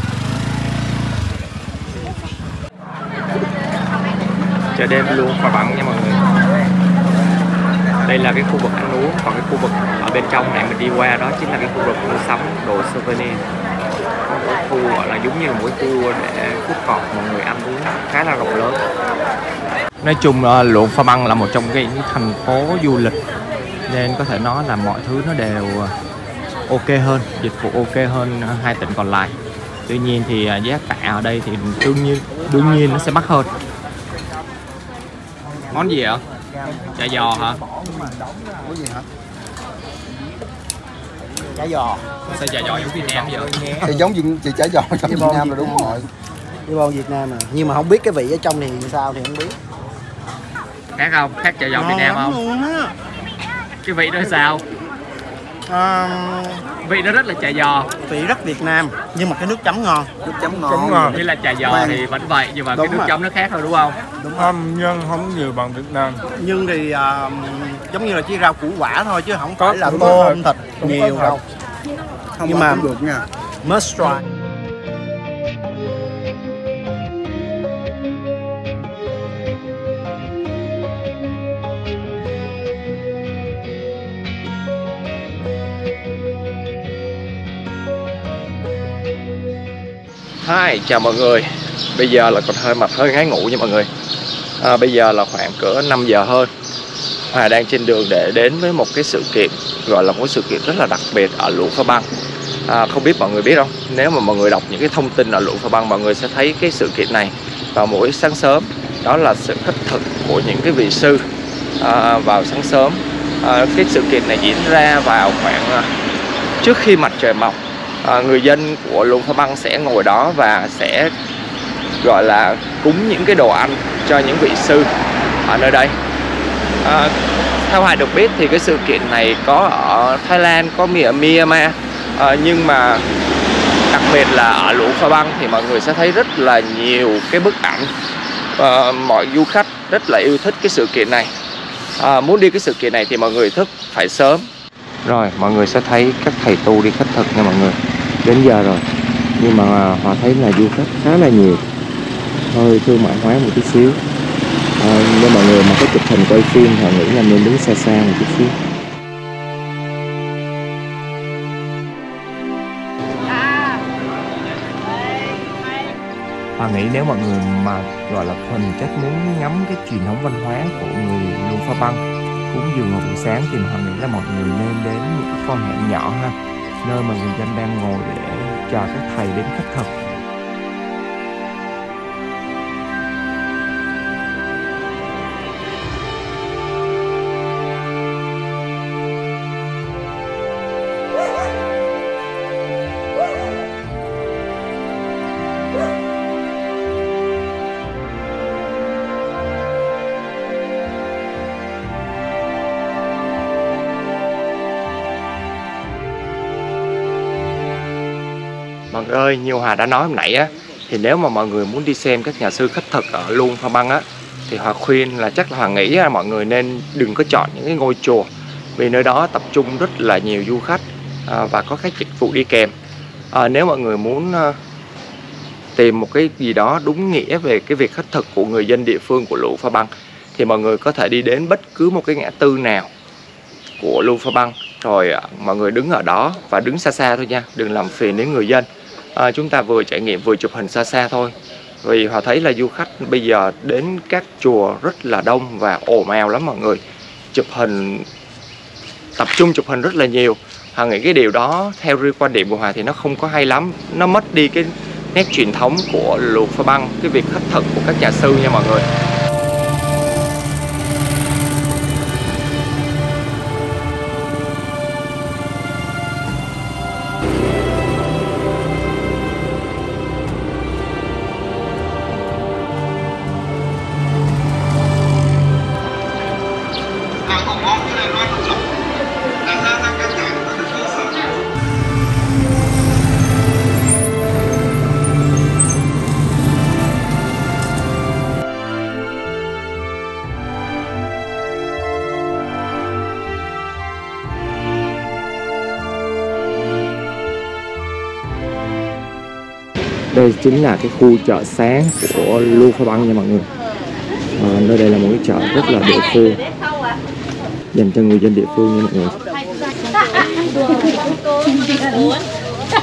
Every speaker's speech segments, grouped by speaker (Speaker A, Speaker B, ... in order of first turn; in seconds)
Speaker A: 4.7-6.2, 8.1-13.5, 14.3-18.8, 20.0-23.2, 23.9-25.9, 26.7-29.4, 29.9-33.5, 35.7-36.2, 37.0-37.6, 42.3-43.9, 51.0-52.4, 53.8-54.6, 56.8-57.9, 61.1-64.0, 90.4-93.9, 94.6-96.5, 97.3-102.1, 102.7-111.2, 111.8-115.9, 116.6-121.1, 122.0-124.9, 125.4-126.0, 126.8-133.1, 133.9-137.9, 138.6-141.3, 142.0-144.5, 145.1-148.8, 149.4-151.7, 152.5-154.0, 154.8-158.6, 166.6-179.9, 208.9-222.7, 223.3-224.6, 225.8-232.9, 233.8-246.8, 247.3-248.1, 249.2-258.9, 300.1-303.5, 304.4-306.4, 307.7-309.2
Speaker B: 37.7-38.8, 41.5-42.1, 45.0-46.0, 46.7-49.6, 51.7-52.9, 55.7-56.6, 58.0-62.0, 62.7-63.1, 64.2-64.5, 66.3-71.4, 72.4-74.2
Speaker C: 38.6-39.0, 43.8-46.1, 277.2-278.7, 279.4-281.4
Speaker D: 60.7-61.2, 64.4-66.2, 69.6-71.4